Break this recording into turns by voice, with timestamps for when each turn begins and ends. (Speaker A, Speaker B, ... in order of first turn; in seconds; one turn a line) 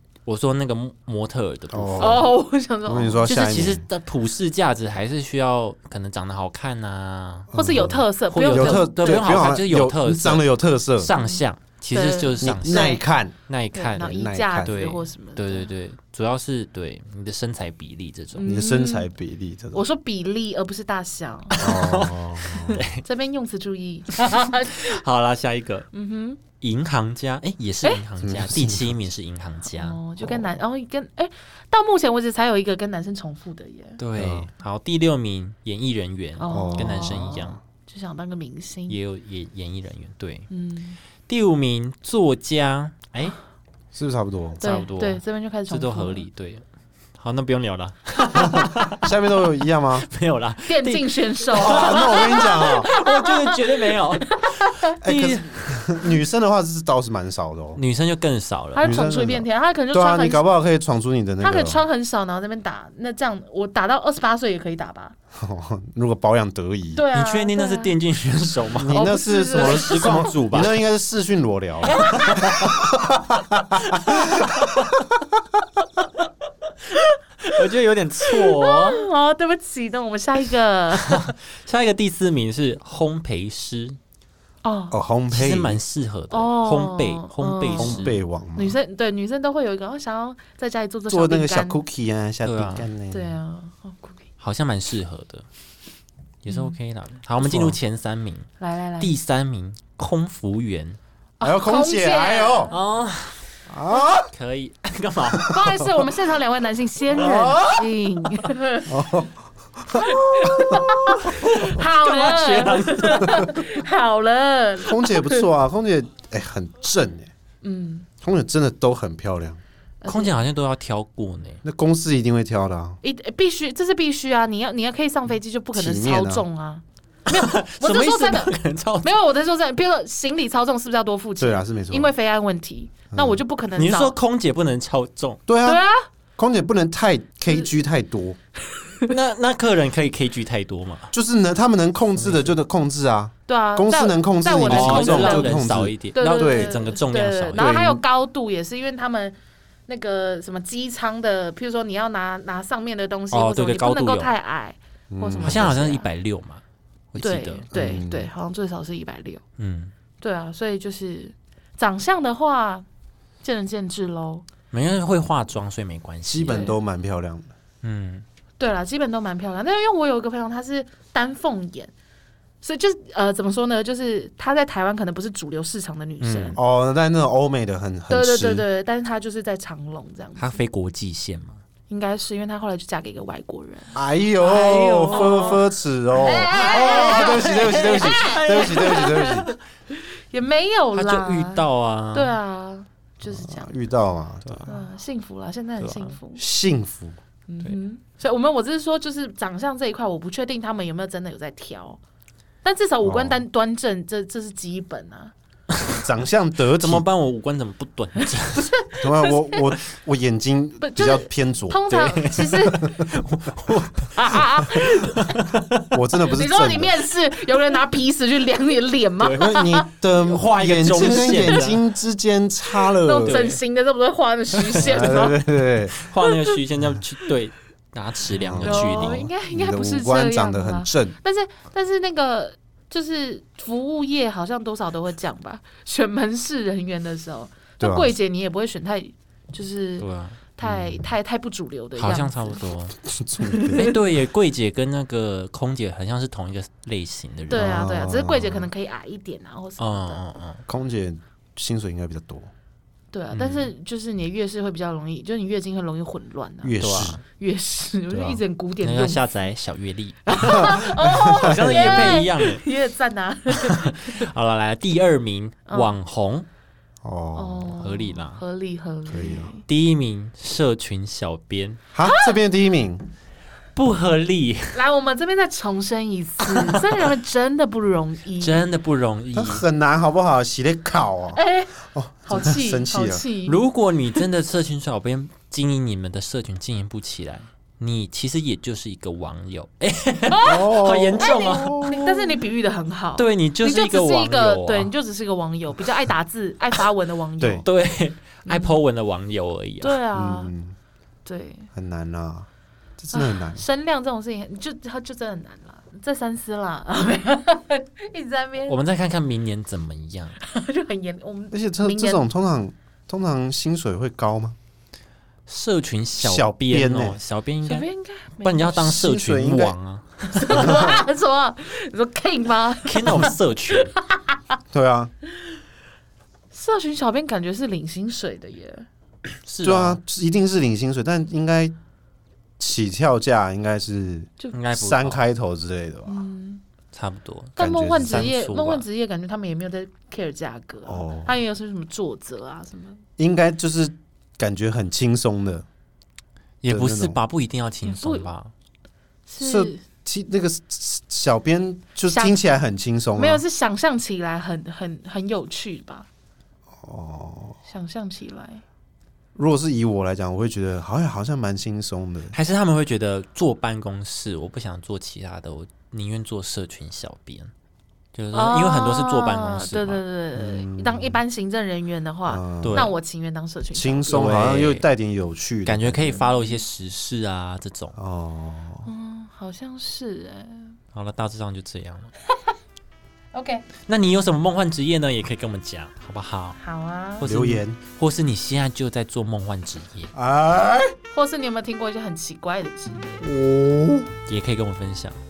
Speaker A: 0.2-2.2
Speaker B: 1.7-2.3
Speaker C: 2.0-3.4
Speaker B: 2.9-3.8
Speaker A: 3.2-18.5
Speaker B: 7.5-11.1
Speaker C: 7.5-9.3
Speaker C: 11.1-11.4
Speaker C: 11.9-13.0
Speaker B: 12.4-13.3
Speaker C: 13.7-15.7
Speaker B: 14.0-14.8
Speaker C: 18.4-19.1
Speaker B: 18.4-19.8
Speaker C: 19.7-21.7
Speaker A: 21.6-23.0
Speaker B: 21.6-22.8
Speaker C: 23.0-25.0
Speaker A: 24.2-25.9
Speaker C: 25.9-26.4
Speaker A: 26.6-30.0
Speaker B: 28.2-29.0
Speaker C: 29.7-34.0
Speaker B: 30.2-30.4
Speaker A: 34.0-37.6
Speaker B: 34.1-34.5
Speaker C: 36.4-39.0
Speaker B: 36.5-37.2
Speaker A: 38.9-40.5
Speaker C: 40.5-41.0
Speaker A: 41.3-43.4
Speaker B: 43.9-44.6
Speaker A: 44.6-46.6
Speaker C: 44.6-46.2
Speaker A: 47.2-49.1
Speaker B: 48.5-50.1
Speaker A: 49.9-55.6
Speaker C: 50.7-54.9
Speaker B: 51.5-52.9
Speaker B: 55.0-57.8
Speaker A: 57.7-59.0
Speaker C: 58.7-60.4
Speaker B: 58.8-61.8
Speaker C: 61.4-65.1
Speaker B: 65.3-67.0
Speaker C: 66.9-67.9
Speaker A: 67.1-70.7
Speaker B: 68.7-74.9
Speaker C: 68.9-70.4
Speaker C: 71.9-72.7
Speaker A: 72.1-72.8
Speaker A: 73.8-74.9
Speaker A: 77.4-79.0
Speaker C: 78.3-81.3
Speaker A: 80.9-84.0
Speaker C: 84.6-85.0
Speaker B: 84.9-85.8
Speaker A: 85.3-88.1
Speaker C: 86.3-91.8
Speaker B: 87.7-88.8
Speaker B: 91.1-93.4
Speaker A: 92.4-92.9
Speaker C: 93.1-94.2
Speaker A: 94.4-95.5
Speaker A: 96.4-101.0
Speaker C: 96.5-96.8
Speaker B: 97.4-97.8
Speaker C: 98.6-99.1
Speaker C: 101.4-102.8
Speaker B: 101.4-102.7
Speaker A: 102.7-103.5
Speaker B: 103.7-104.3
Speaker A: 104.2-105.6
Speaker B: 105.3-106.1
Speaker C: 105.4-108.9
Speaker B: 107.1-107.9
Speaker B: 108.8-111.7
Speaker C: 109.9-115.5
Speaker A: 111.3-113.7
Speaker B: 114.8-117.3
Speaker C: 117.6-118.1
Speaker B: 118.2-119.6
Speaker C: 120.0-120.4
Speaker A: 120.0-121.6
Speaker B: 121.6-123.0
Speaker C: 123.0-134.2
Speaker B: 125.7-126.4
Speaker A: 127.3-129.1
Speaker B: 131.4-132.1
Speaker B: 133.1-133.4
Speaker A: 133.7-135.4
Speaker B: 135.5-135.8
Speaker C: 135.6-136.1
Speaker B: 136.4-138.4
Speaker A: 139.1-141.1
Speaker B: 141.1-146.8
Speaker A: 142.2-142.6
Speaker C: 143.5-149.3
Speaker A: 144.6-147.7
Speaker B: 147.6-148.0
Speaker C: 149.9-156.1
Speaker A: 153.3-154.3
Speaker B: 155.1-155.7
Speaker A: 155.4-157.7
Speaker C: 157.2-159.4
Speaker B: 157.7-158.3
Speaker A: 159.6-159.9
Speaker C: 160.2-162.8
Speaker C: 163.4-164.5
Speaker A: 164.7-166.7
Speaker B: 166.2-167.5
Speaker C: 166.5-166.8
Speaker A: 167.8-168.2
Speaker C: 168.6-171.9
Speaker C: 172.6-176.6
Speaker A: 176.2-176.6
Speaker B: 176.5-178.6
Speaker C: 178.1-180.6
Speaker A: 180.4-181.6
Speaker C: 181.9-184.0
Speaker B: 183.9-189.5
Speaker A: 184.4-185.6
Speaker C: 184.6-185.6
Speaker C: 186.2-193.7
Speaker A: 186.3-189.6
Speaker A: 190.9-192.3
Speaker B: 193.2-194.7
Speaker A: 194.4-194.7
Speaker C: 194.7-196.4
Speaker A: 195.8-196.1
Speaker B: 196.3-197.2
Speaker C: 197.5-202.0
Speaker C: 202.6-205.3
Speaker B: 203.0-203.4
Speaker A: 205.7-206.0
Speaker B: 206.0-207.0
Speaker A: 206.8-208.7
Speaker C: 208.5-209.7
Speaker B: 209.0-212.2
Speaker C: 210.8-213.0
Speaker A: 211.9-215.9
Speaker C: 214.2-215.4
Speaker B: 215.9-217.0
Speaker C: 216.3-219.9
Speaker A: 219.2-219.6
Speaker B: 219.3-223.5
Speaker A: 220.1-221.8
Speaker C: 221.0-221.7
Speaker C: 222.8-225.4
Speaker A: 223.2-223.6
Speaker A: 224.5-225.2
Speaker B: 224.8-225.9
Speaker A: 225.9-229.3
Speaker C: 226.2-226.6
Speaker B: 228.3-231.2
Speaker C: 228.6-242.7
Speaker B: 237.8-238.1
Speaker A: 240.0-240.4
Speaker B: 240.6-241.1
Speaker A: 241.9-242.9
Speaker B: 243.0-243.9
Speaker C: 243.5-244.0
Speaker A: 243.7-247.8
Speaker B: 247.5-248.7
Speaker C: 247.5-250.2
Speaker A: 249.8-250.6
Speaker B: 250.7-252.5
Speaker C: 253.1-259.2
Speaker A: 253.3-253.7
Speaker B: 256.6-257.2
Speaker A: 256.8-257.2
Speaker B: 258.1-258.4
Speaker A: 258.8-262.6
Speaker C: 260.2-264.2
Speaker B: 261.1-262.2
Speaker A: 263.5-266.5
Speaker C: 265.7-265.9
Speaker B: 267.0-267.7
Speaker C: 267.3-269.6
Speaker A: 267.8-268.4
Speaker B: 269.1-269.5
Speaker A: 269.7-271.8
Speaker B: 271.9-273.0
Speaker C: 272.1-272.4
Speaker A: 273.8-274.8
Speaker C: 274.7-278.7
Speaker A: 276.4-277.0
Speaker A: 278.4-279.6
Speaker B: 279.4-283.2
Speaker C: 281.3-283.6
Speaker A: 283.4-291.8
Speaker C: 290.3-297.7
Speaker B: 290.4-292.4
Speaker A: 293.1-294.9
Speaker B: 297.4-297.6
Speaker A: 297.6-300.0
Speaker C: 298.4-298.8
Speaker C: 299.8-300.5
Speaker B: 300.1-300.7
Speaker C: 301.2-301.7
Speaker B: 301.7-303.6
Speaker C: 303.1-308.8
Speaker A: 308.6-310.4
Speaker C: 310.4-312.2
Speaker B: 311.5-314.6
Speaker A: 315.5-317.9
Speaker B: 316.2-317.2
Speaker C: 317.6-318.8
Speaker A: 318.4-320.9
Speaker B: 318.7-319.7
Speaker C: 320.3-324.6
Speaker B: 320.6-321.0
Speaker A: 322.8-323.9
Speaker B: 324.7-325.1
Speaker C: 326.5-328.9
Speaker A: 329.4-330.0
Speaker B: 329.6-331.7
Speaker B: 332.6-336.2
Speaker A: 334.5-335.2
Speaker C: 336.1-336.6
Speaker A: 336.9-338.9
Speaker C: 337.6-343.0
Speaker B: 337.6-338.3
Speaker B: 340.9-341.4
Speaker B: 343.2-345.6
Speaker A: 346.6-348.5
Speaker B: 346.7-347.2
Speaker C: 347.8-348.3
Speaker C: 349.3-349.8
Speaker B: 349.4-353.4
Speaker C: 352.1-352.4
Speaker C: 353.1-356.1
Speaker B: 356.8-357.6
Speaker C: 357.7-358.6
Speaker B: 359.3-362.3
Speaker A: 362.3-367.5
Speaker A: 368.1-370.0
Speaker C: 368.3-374.4
Speaker B: 370.4-371.2
Speaker B: 372.3-372.9
Speaker A: 372.6-372.9
Speaker B: 373.7-376.1
Speaker A: 374.1-374.9
Speaker A: 375.6-377.9
Speaker C: 376.1-376.6
Speaker B: 377.9-378.9
Speaker C: 378.9-380.8
Speaker A: 380.9-382.1
Speaker C: 383.3-383.7
Speaker A: 383.9-386.6
Speaker C: 386.6-387.3
Speaker A: 387.2-390.1
Speaker B: 387.2-387.8
Speaker B: 390.1-390.9
Speaker C: 391.1-393.3
Speaker B: 393.2-394.1
Speaker A: 394.3-395.2